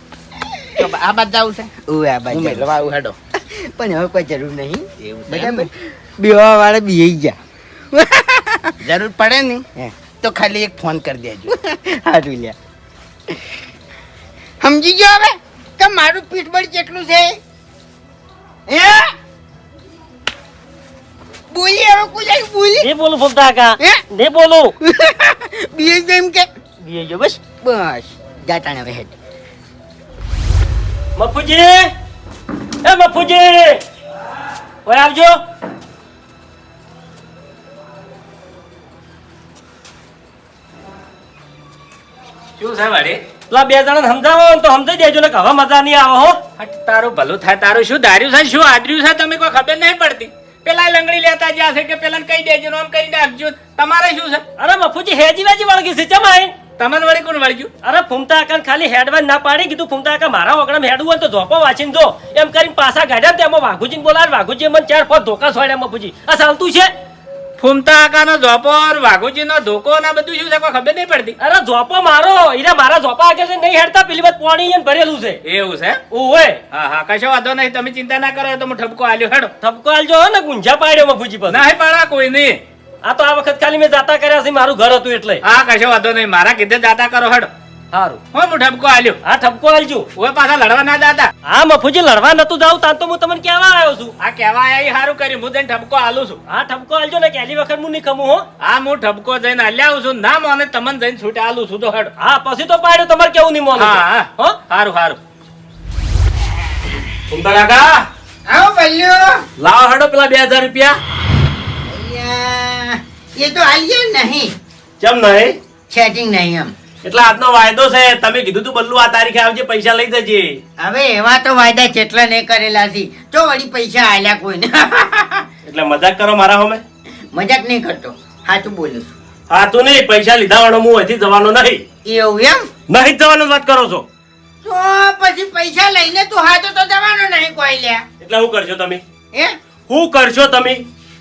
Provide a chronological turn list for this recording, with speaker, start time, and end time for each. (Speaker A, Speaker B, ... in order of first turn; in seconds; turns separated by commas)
Speaker A: 0.4-0.9, Speaker B: 0.8-1.7, Speaker A: 1.9-2.7, Speaker B: 2.3-3.2, Speaker A: 3.4-7.4, Speaker B: 5.0-5.7, Speaker A: 7.9-8.8, Speaker B: 8.8-9.7, Speaker B: 10.2-11.5, Speaker A: 11.5-12.6, Speaker A: 14.6-17.4, Speaker A: 18.7-19.1, Speaker A: 21.5-22.9, Speaker C: 22.8-24.7, Speaker A: 24.8-26.5, Speaker C: 26.8-27.4, Speaker A: 27.5-29.1, Speaker C: 31.2-31.9, Speaker C: 32.8-33.8, Speaker C: 34.9-35.4, Speaker D: 42.6-43.2, Speaker C: 43.5-46.4, Speaker D: 46.6-54.4, Speaker C: 54.6-56.5, Speaker D: 56.8-57.7, Speaker C: 57.8-66.9, Speaker D: 67.6-71.4, Speaker C: 71.4-75.4, Speaker D: 75.4-76.0, Speaker C: 76.1-76.6, Speaker D: 76.7-79.5, Speaker C: 79.6-81.6, Speaker D: 81.5-82.6, Speaker C: 83.0-85.4, Speaker D: 85.4-87.5, Speaker C: 87.9-88.2, Speaker D: 88.3-89.2, Speaker C: 89.2-90.1, Speaker D: 90.2-91.3, Speaker C: 91.5-94.1, Speaker D: 94.2-96.4, Speaker C: 96.5-98.5, Speaker D: 98.6-102.1, Speaker C: 102.2-104.6, Speaker D: 103.8-105.2, Speaker E: 107.3-108.1, Speaker A: 108.5-109.5, Speaker E: 109.6-111.0, Speaker A: 111.9-114.5, Speaker E: 115.0-115.6, Speaker A: 115.9-116.7, Speaker E: 117.0-120.6, Speaker A: 120.8-125.5, Speaker E: 125.7-126.8, Speaker A: 127.3-129.2, Speaker E: 129.5-131.8, Speaker A: 132.1-132.7, Speaker E: 132.9-134.1, Speaker A: 134.6-138.1, Speaker E: 138.2-139.0, Speaker E: 139.9-140.8